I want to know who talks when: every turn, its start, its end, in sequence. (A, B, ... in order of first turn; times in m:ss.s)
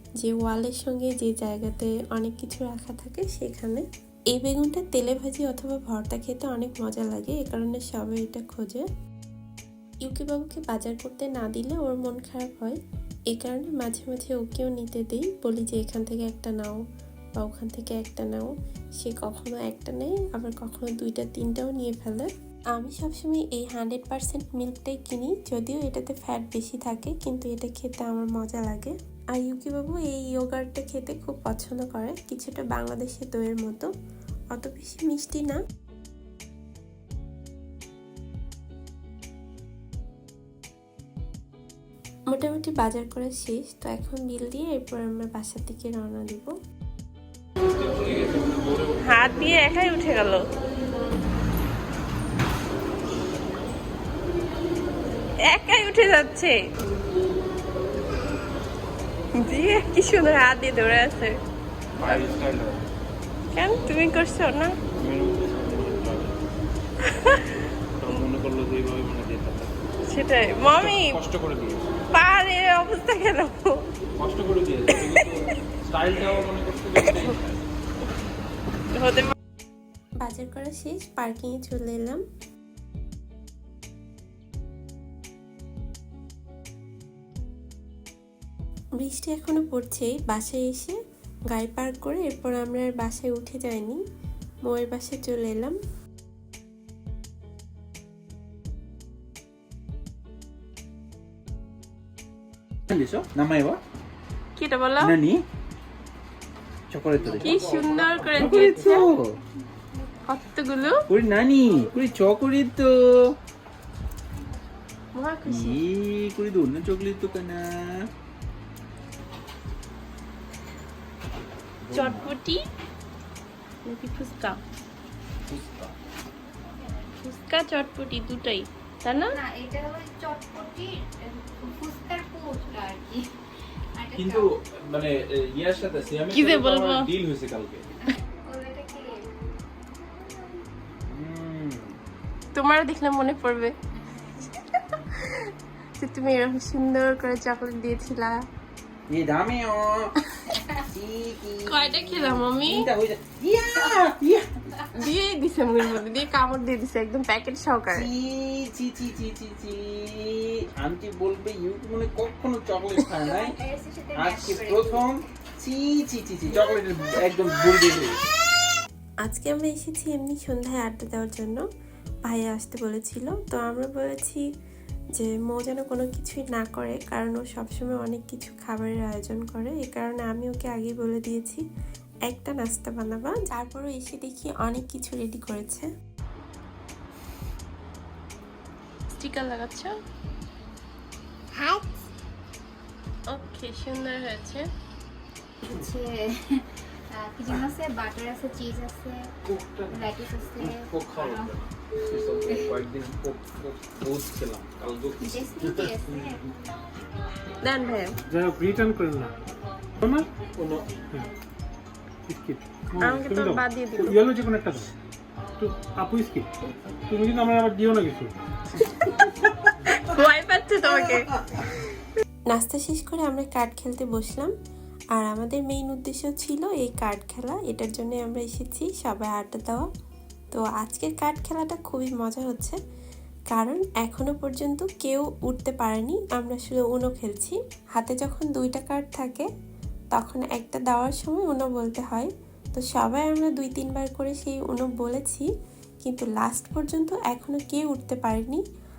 0:00.2-0:08.8 A
0:10.0-0:12.8 A
0:13.3-0:16.8 A
0:17.4-0:33.9 A
0:34.5-0:35.6 A
0:42.3-0:46.5 A
0:47.8-0:49.0 B
0:49.0-0:50.5 C
0:55.4-0:56.6 C
0:59.4-1:01.3 C
1:02.0-1:02.8 B
1:03.5-1:04.8 C
1:05.0-1:06.3 B
1:07.1-1:07.5 C
1:08.0-1:09.7 B
1:10.1-1:11.2 C
1:10.7-1:11.9 B
1:12.1-1:13.8 C
1:14.2-1:17.5 B
1:14.9-1:15.3 C
1:17.0-1:17.3 C
1:19.0-1:19.3 C
1:20.2-1:22.2 A
1:29.0-1:31.0 A
1:31.5-1:34.0 A
1:34.6-1:35.8 A
1:42.9-1:43.8 B
1:44.6-1:45.1 C
1:45.0-1:45.4 B
1:46.9-1:49.4 B
1:47.2-1:49.1 C
1:48.2-1:48.6 D
1:50.3-1:51.0 C
1:51.1-1:53.3 B
1:55.1-1:55.8 C
1:55.4-1:58.0 B
2:01.8-2:02.3 B
2:01.9-2:02.6 C
2:03.8-2:04.6 C
2:05.5-2:05.9 B
2:06.6-2:07.1 E
2:07.2-2:09.4 C
2:09.3-2:13.3 E
2:14.0-2:14.5 E
2:14.2-2:17.8 B
2:16.3-2:17.1 C
2:18.0-2:19.2 E
2:21.1-2:21.9 B
2:22.5-2:23.7 C
2:24.0-2:24.4 E
2:26.0-2:28.4 C
2:29.1-2:30.1 B
2:30.5-2:30.8 E
2:30.9-2:34.4 B
2:31.7-2:32.9 C
2:33.8-2:34.0 E
2:34.9-2:38.1 C
2:37.9-2:43.5 B
2:43.2-2:45.2 E
2:44.2-2:48.2 B
2:49.2-2:51.6 A
2:52.2-2:54.4 A
2:55.2-3:01.6 A
3:02.3-3:05.9 A
3:09.2-3:09.9 C
3:11.5-3:11.8 C
3:13.3-3:14.7 C
3:15.7-3:19.3 E
3:19.5-3:20.0 B
3:19.9-3:21.6 E
3:20.6-3:26.2 B
3:22.5-3:22.7 E
3:25.2-3:26.5 E
3:27.6-3:28.2 C
3:28.3-3:29.4 D
3:30.0-3:30.3 D
3:30.6-3:30.9 B
3:30.6-3:31.3 E
3:32.3-3:34.9 D
3:33.0-3:34.2 C
3:35.6-3:36.5 D
3:37.1-3:38.3 D
3:39.9-3:41.3 C
3:42.5-3:44.5 A
3:45.1-3:49.9 A
3:50.5-3:52.8 A
3:53.5-3:59.5 A
4:00.1-4:05.4 A
4:06.0-4:08.6 A